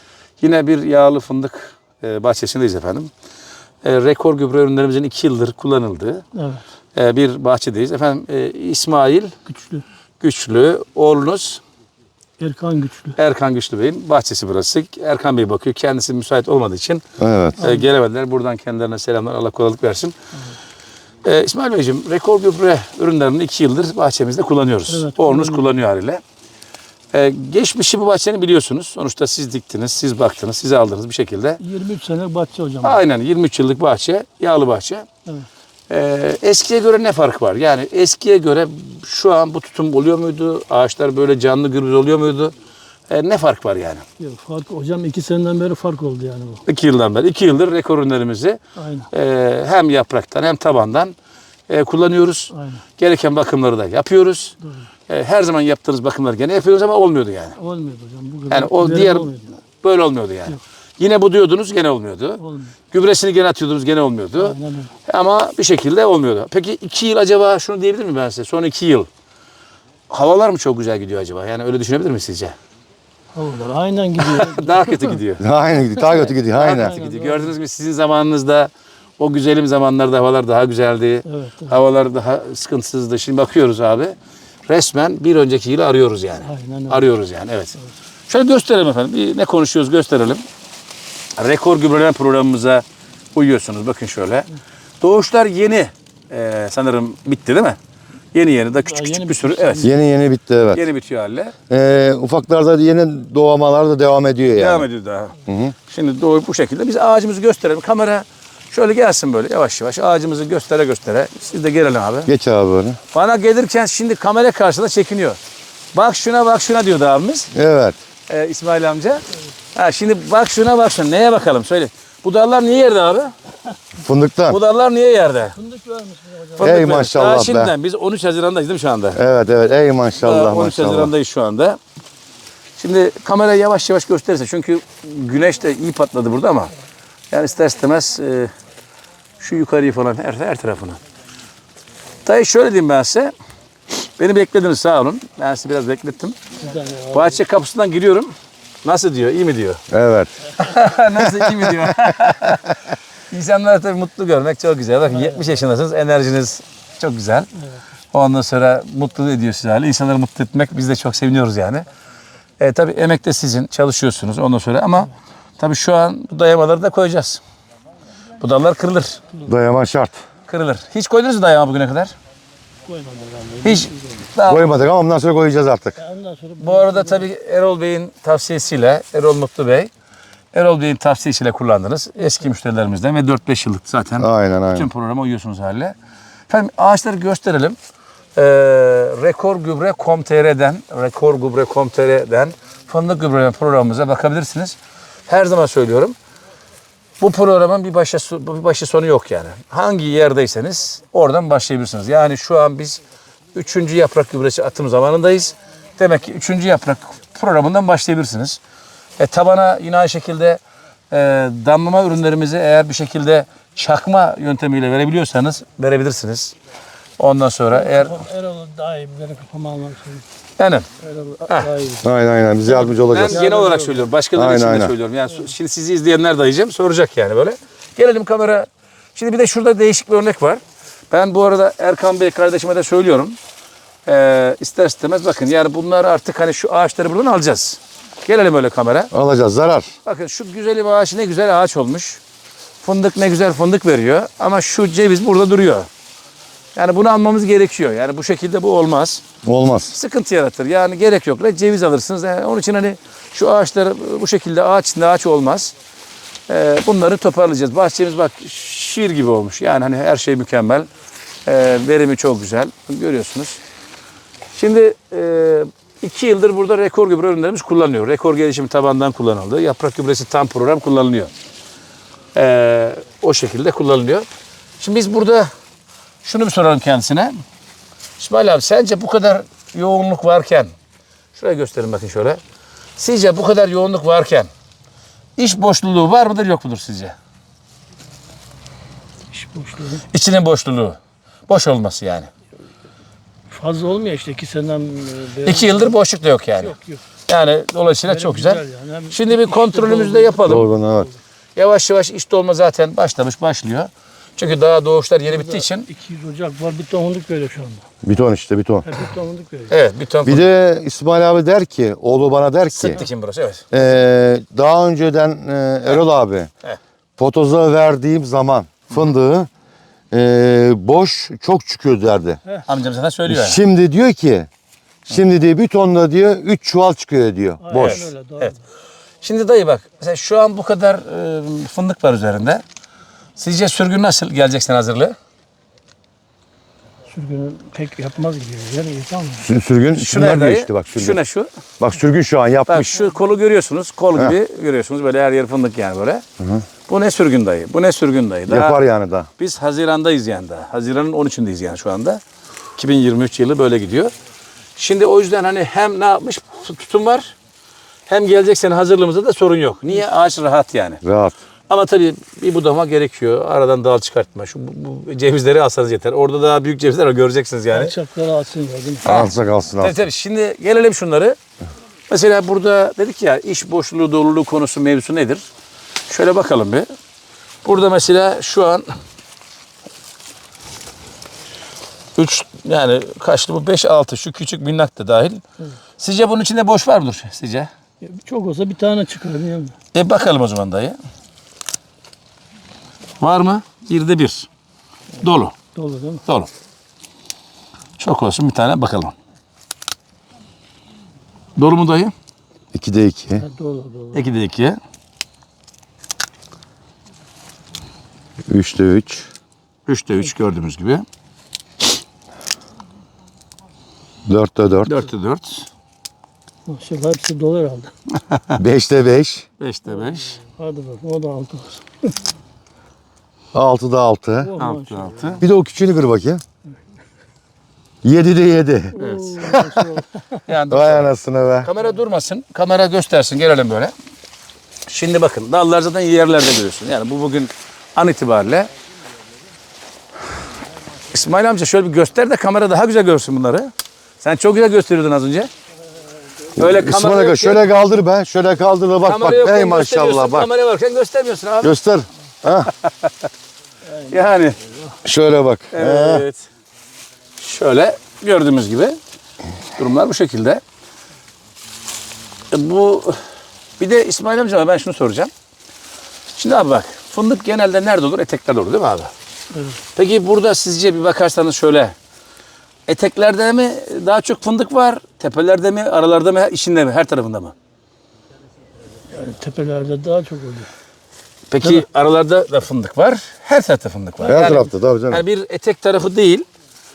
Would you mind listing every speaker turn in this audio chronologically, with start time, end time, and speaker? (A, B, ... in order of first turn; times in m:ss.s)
0:00.4-0:03.1 A
0:03.8-0:06.2 A
0:06.4-0:06.6 B
0:07.0-0:09.4 A
0:09.5-0:09.8 B
0:10.2-0:11.6 A
0:12.4-0:13.2 B
0:13.2-0:17.0 A
0:17.2-0:17.6 C
0:17.6-0:20.2 A
0:21.2-0:26.2 A
0:24.9-0:25.8 B
0:27.1-0:31.6 A
0:31.6-0:33.0 B
0:32.8-0:35.0 A
0:35.9-0:42.5 A
0:43.1-0:44.0 A
0:44.2-0:46.6 B
0:46.6-0:48.6 A
0:48.8-0:49.1 B
0:49.1-0:51.1 A
0:51.7-0:54.6 A
0:52.5-0:52.8 B
0:55.1-0:57.6 A
0:57.6-0:59.5 B
0:58.5-1:09.1 A
1:02.4-1:02.7 B
1:04.4-1:04.9 B
1:10.1-1:12.6 A
1:13.3-1:15.1 B
1:14.2-1:15.4 A
1:15.4-1:17.0 C
1:16.1-1:24.2 A
1:16.5-1:17.5 B
1:21.3-1:21.8 B
1:24.7-1:27.8 A
1:26.5-1:27.1 B
1:28.3-1:30.4 A
1:31.4-1:32.8 A
1:33.3-1:34.5 A
1:35.0-1:37.8 A
1:38.3-1:39.9 A
1:38.8-1:40.0 B
1:39.8-1:40.8 C
1:40.7-1:41.5 A
1:41.7-1:44.9 C
1:44.5-1:52.3 A
1:45.5-1:45.7 C
1:52.3-1:53.0 C
1:53.1-1:55.4 A
1:55.9-1:57.5 A
1:57.5-1:58.0 C
1:58.3-1:59.2 A
1:59.8-2:03.3 A
2:03.9-2:04.6 C
2:04.5-2:05.6 A
2:05.6-2:06.7 B
2:06.6-2:07.7 C
2:06.6-2:09.2 A
2:09.1-2:11.1 C
2:10.2-2:11.8 A
2:12.8-2:16.7 A
2:17.3-2:18.5 A
2:19.4-2:21.0 A
2:22.2-2:23.3 A
2:24.2-2:26.4 A
2:26.6-2:27.4 B
2:27.1-2:28.3 A
2:28.8-2:29.8 A
2:29.9-2:30.3 C
2:30.5-2:37.5 A
2:31.3-2:31.9 C
2:35.1-2:35.4 B
2:38.1-2:41.8 A
2:42.6-2:47.4 A
2:48.4-2:49.2 A
2:49.4-2:50.2 C
2:50.5-2:52.1 A
2:52.9-2:54.3 B
2:53.6-2:54.7 A
2:54.5-2:56.0 C
2:56.0-2:57.2 B
2:56.6-2:59.9 A
3:00.5-3:05.9 A
3:04.2-3:04.9 C
3:06.5-3:07.8 A
3:08.4-3:14.8 A
3:15.3-3:16.2 A
3:17.2-3:23.0 A
3:23.5-3:28.6 A
3:29.2-3:30.6 A
3:31.1-3:36.5 A
3:37.2-3:38.3 A
3:37.8-3:40.2 B
3:40.6-3:40.9 A
3:41.0-3:42.1 B
3:41.4-3:41.7 A
3:42.0-3:43.4 C
3:42.9-3:44.1 B
3:43.1-3:53.4 A
3:44.3-3:44.9 C
3:54.0-3:59.1 A
3:59.1-3:59.9 C
4:00.0-4:02.2 A
4:02.8-4:05.9 A
4:06.8-4:09.2 A
4:09.4-4:09.9 C
4:09.9-4:15.7 A
4:16.5-4:20.9 A
4:21.4-4:23.6 A
4:24.6-4:31.3 A
4:32.3-4:34.2 A
4:34.8-4:35.5 A
4:36.2-4:37.4 A
4:38.2-4:40.7 A
4:41.3-4:42.4 A
4:43.0-4:44.5 A
4:45.4-4:47.1 A
4:49.3-4:50.0 B
4:50.1-4:52.3 A
4:53.5-4:55.9 B
4:55.4-5:00.7 A
4:56.6-4:57.0 B
4:58.1-5:01.1 B
5:00.4-5:01.1 C
5:01.6-5:05.9 A
5:05.3-5:07.8 B
5:08.0-5:08.9 C
5:08.8-5:09.7 B
5:09.7-5:10.4 A
5:10.2-5:13.0 C
5:12.7-5:13.6 A
5:13.7-5:16.5 C
5:17.2-5:19.5 C
5:20.1-5:22.4 C
5:22.7-5:23.6 A
5:23.3-5:24.5 C
5:25.1-5:28.1 C
5:27.6-5:28.6 B
5:27.8-5:28.6 A
5:29.2-5:32.6 A
5:33.4-5:35.1 A
5:37.1-5:39.5 B
5:39.4-5:41.2 C
5:39.9-5:41.5 A
5:41.8-5:42.9 C
5:42.7-5:46.2 A
5:46.4-5:46.6 C
5:46.9-5:48.8 A
5:48.5-5:49.3 C
5:49.4-5:52.2 A
5:52.8-5:54.1 A
5:54.8-5:57.3 A
5:58.1-6:01.0 A
6:01.0-6:01.3 C
6:01.7-6:07.9 A
6:07.7-6:09.1 B
6:09.0-6:09.9 C
6:09.0-6:11.4 A
6:12.1-6:15.4 A
6:16.1-6:16.9 A
6:17.6-6:18.9 A
6:22.2-6:25.4 A
6:26.0-6:27.7 A
6:28.0-6:29.8 B
6:29.9-6:31.0 A
6:33.2-6:34.5 A
6:35.2-6:35.6 A
6:35.8-6:36.2 B
6:38.0-6:39.1 A
6:41.6-6:42.1 A
6:42.7-6:43.4 C
6:43.4-6:44.2 B
6:44.1-6:44.8 A
6:48.5-6:49.3 C
6:49.9-6:51.0 A
6:54.3-6:55.0 C
6:54.9-6:55.7 A
6:56.7-6:57.9 B
6:58.6-6:59.4 C
6:59.6-7:00.4 A
7:00.0-7:02.1 B
7:03.5-7:04.5 C
7:04.4-7:05.4 B
7:04.6-7:05.4 A
7:05.4-7:06.4 C
7:08.0-7:09.8 C
7:08.9-7:10.1 B
7:09.0-7:09.6 A
7:10.4-7:13.9 A
7:10.7-7:11.7 C
7:14.9-7:18.7 A
7:21.1-7:25.5 A
7:26.6-7:27.6 A
7:26.6-7:30.5 C
7:29.0-7:31.8 A
7:31.6-7:32.7 C
7:33.9-7:34.3 B
7:34.1-7:34.6 A
7:35.0-7:36.2 C
7:35.7-7:36.5 A
7:37.4-7:39.0 A
7:39.8-7:40.6 A
7:42.5-7:43.2 A
7:43.8-7:45.3 A
7:46.4-7:49.1 A
7:49.9-7:51.9 A
7:52.9-7:57.5 A
7:59.1-8:00.7 B
8:01.5-8:06.4 A
8:04.2-8:04.6 B
8:04.2-8:05.2 C